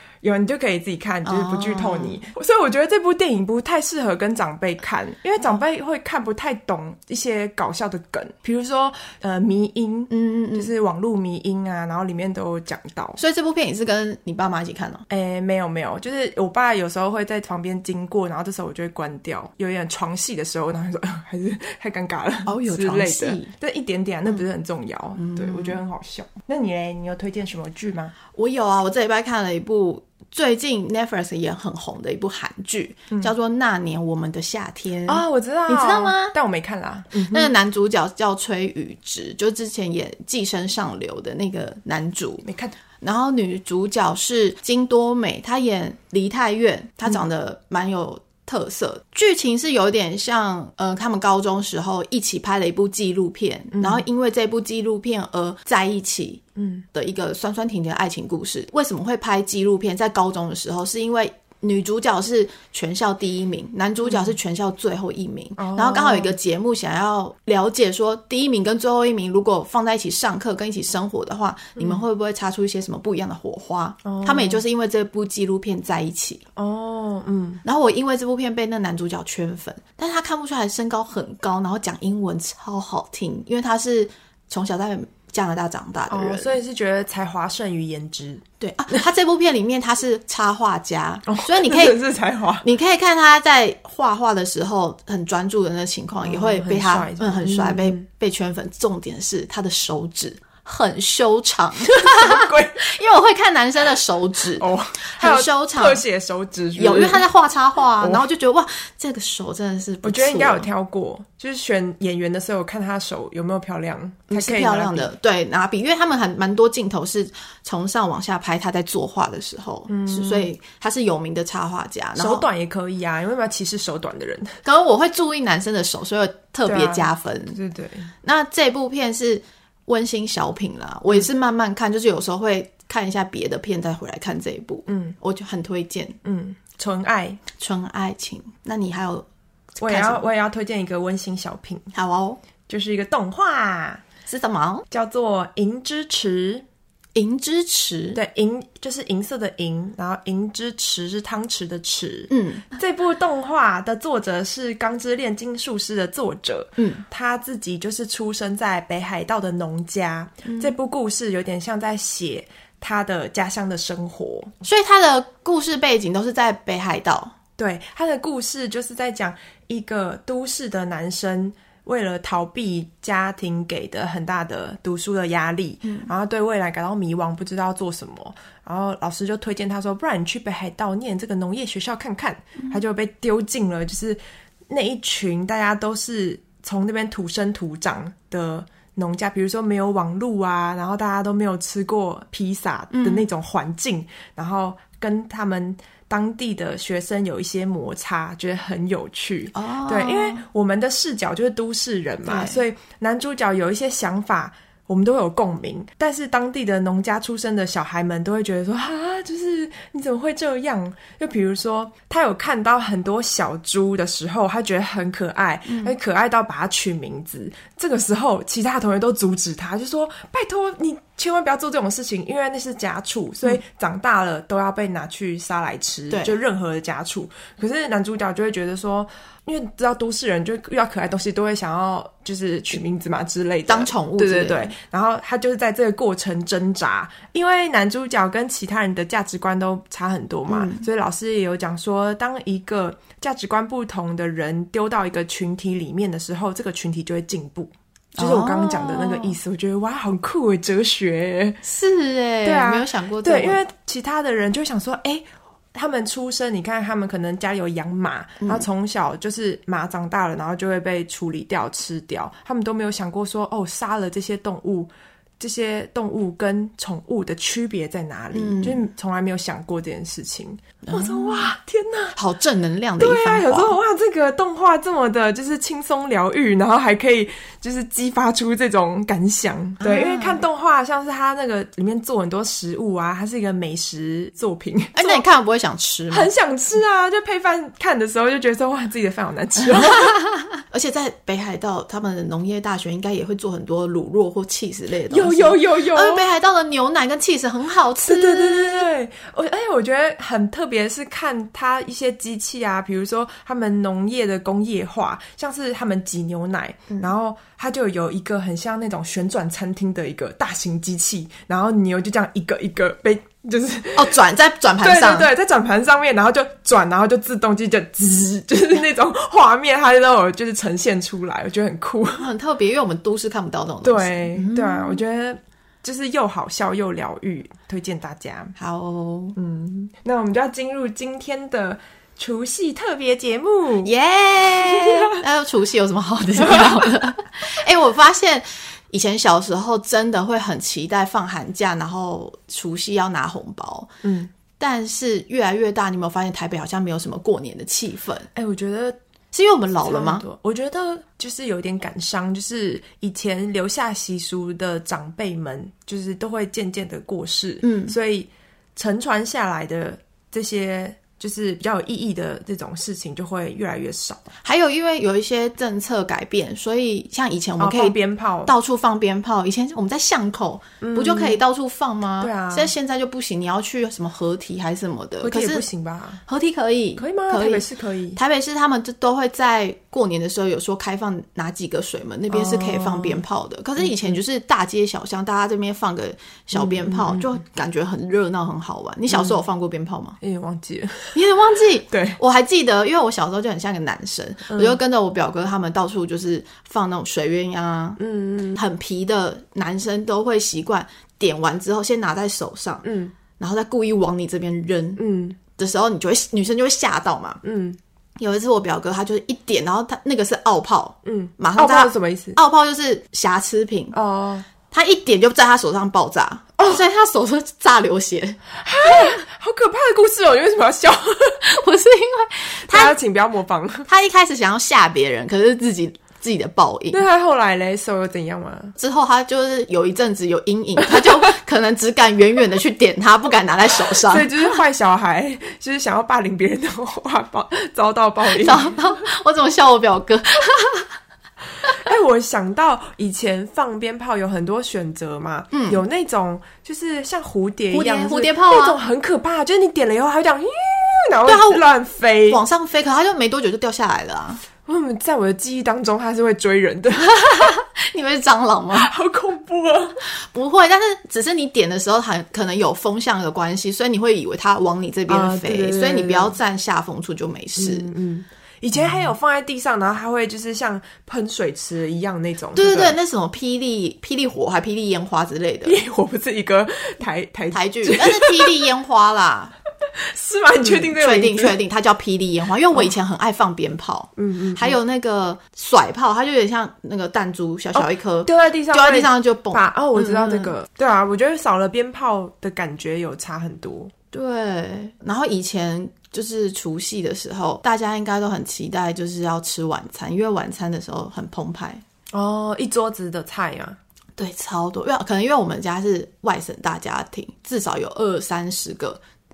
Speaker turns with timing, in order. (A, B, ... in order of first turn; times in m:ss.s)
0:00.2-0:13.2 A
0:01.2-0:02.2 B
0:10.1-0:10.7 B
0:13.2-0:15.0 B
0:15.1-0:28.1 A
0:22.4-0:23.5 B
0:25.2-0:25.8 B
0:28.3-0:36.3 B
0:35.0-0:37.5 A
0:37.2-0:42.5 B
0:42.4-0:42.8 A
0:43.0-1:16.4 B
0:53.7-0:54.0 A
0:56.6-0:56.8 A
1:04.0-1:04.3 A
1:05.6-1:06.4 A
1:14.0-1:14.6 A
1:16.6-1:17.6 A
1:17.6-1:26.6 B
1:26.1-1:28.4 A
1:28.6-1:32.0 B
1:31.3-1:32.6 A
1:32.6-1:46.0 B
1:36.2-1:38.0 A
1:41.9-1:42.8 A
1:44.6-1:47.3 A
1:46.8-1:50.7 B
1:48.0-1:48.2 A
1:50.0-1:55.1 A
1:54.3-2:02.4 B
1:59.9-2:00.5 A
2:02.2-2:04.6 A
2:04.6-2:07.6 B
2:06.6-2:08.1 A
2:08.2-2:16.2 B
2:14.9-2:15.2 A
2:16.2-2:17.4 A
2:17.6-2:19.2 B
2:19.8-2:20.2 B
2:19.8-2:21.8 A
2:21.9-2:22.4 B
2:22.7-2:24.0 A
2:24.3-2:24.8 B
2:24.9-2:26.6 A
2:27.1-2:28.2 B
2:28.1-2:44.5 A
2:32.3-2:32.7 B
2:36.8-2:37.0 B
2:40.4-2:40.7 B
2:44.6-2:47.3 B
2:47.6-4:11.6 A
3:12.9-3:13.3 B
3:19.5-3:20.4 B
3:22.2-3:22.6 B
3:35.7-3:36.0 B
3:46.1-3:46.4 B
3:53.7-3:54.7 B
4:00.5-4:00.8 B
4:08.2-4:09.4 B
4:11.6-4:13.6 B
4:12.4-4:32.2 A
4:28.3-4:28.8 B
4:30.8-4:31.5 B
4:32.2-4:33.8 B
4:33.0-4:45.2 A
4:39.8-4:40.4 B
4:45.0-4:46.3 B
4:46.1-4:50.2 A
4:49.7-4:58.9 B
4:55.1-4:56.3 A
4:58.0-5:14.2 A
5:13.9-5:15.3 B
5:14.8-5:22.3 A
5:22.2-5:25.0 B
5:23.8-5:28.5 A
5:28.6-5:29.4 B
5:29.4-5:33.9 A
5:33.8-5:43.9 B
5:34.6-5:35.1 A
5:36.4-5:36.9 A
5:44.0-5:44.3 A
5:44.6-5:48.3 B
5:48.3-5:49.0 A
5:49.3-5:50.2 B
5:49.8-6:04.2 A
5:57.6-5:57.9 B
6:04.4-6:15.6 B
6:07.6-6:08.5 A
6:10.8-6:11.4 A
6:12.2-6:12.7 A
6:15.2-6:16.2 A
6:16.3-6:30.2 B
6:17.0-6:18.2 A
6:22.3-6:23.2 A
6:23.8-6:24.2 A
6:26.5-6:27.4 A
6:29.1-6:29.4 A
6:30.2-6:31.2 A
6:31.1-6:38.0 B
6:31.9-6:32.2 A
6:34.5-6:34.8 A
6:38.0-6:38.6 A
6:38.5-6:42.8 B
6:42.8-6:43.1 A
6:43.4-6:47.4 B
6:45.0-6:45.4 A
6:47.4-6:47.8 A
6:48.2-6:54.0 B
6:51.0-6:52.4 A
6:53.9-6:54.5 A
6:54.7-6:59.2 B
6:58.6-7:01.4 A
7:01.4-7:02.9 B
7:02.7-7:03.9 A
7:03.9-7:07.0 B
7:06.9-7:08.7 A
7:08.8-7:14.3 B
7:13.9-7:18.8 A
7:18.3-7:20.9 B
7:21.6-7:32.4 A
7:25.5-7:25.8 B
7:27.7-7:28.8 B
7:31.2-7:31.6 B
7:32.3-7:34.4 B
7:34.6-7:37.3 A
7:37.0-7:38.9 B
7:38.7-7:40.0 A
7:40.1-7:47.9 B
7:45.1-7:46.4 A
7:47.6-7:53.0 A
7:52.5-7:55.8 B
7:55.6-7:58.6 A
7:57.5-7:59.5 B
8:00.0-8:01.6 A
8:00.6-8:10.5 B
8:04.2-8:04.8 A
8:07.7-8:13.9 A
8:14.1-8:21.8 B
8:22.1-8:23.8 A
8:24.2-8:29.0 B